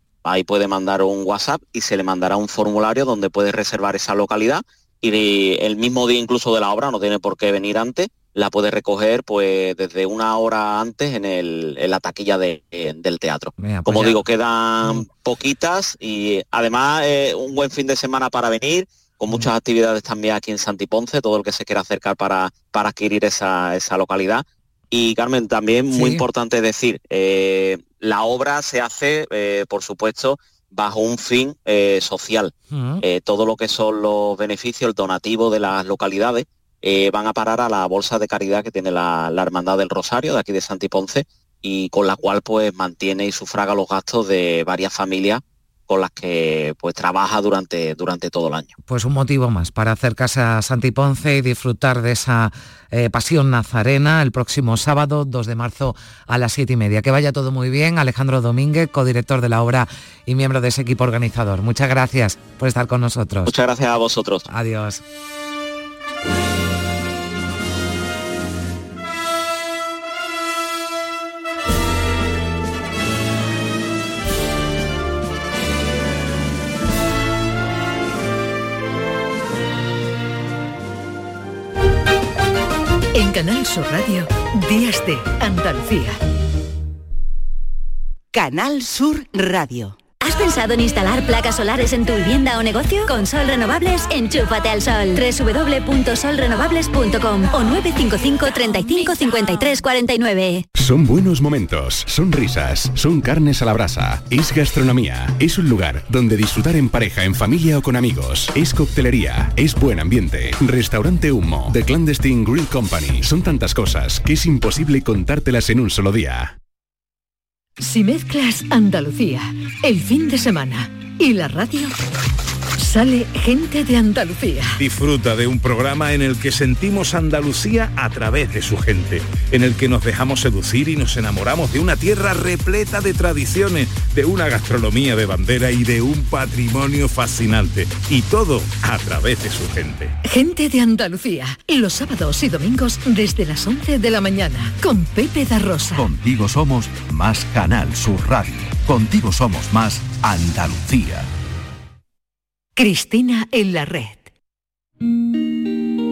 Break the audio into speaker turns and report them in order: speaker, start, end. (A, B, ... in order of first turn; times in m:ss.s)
0:00.2-0:48.7 A
0:13.6-0:14.2 B
0:25.9-0:26.2 B
0:32.7-0:33.0 B
0:48.9-1:03.5 B
1:03.5-1:04.5 A
1:04.5-1:05.0 B
1:23.1-1:26.2 C
1:30.2-1:40.7 D
1:40.8-1:56.6 E
1:57.8-2:02.0 C
2:02.8-2:04.8 C
2:04.8-2:20.2 F
2:20.2-2:26.1 C
2:25.9-2:31.3 G
2:32.8-2:34.3 C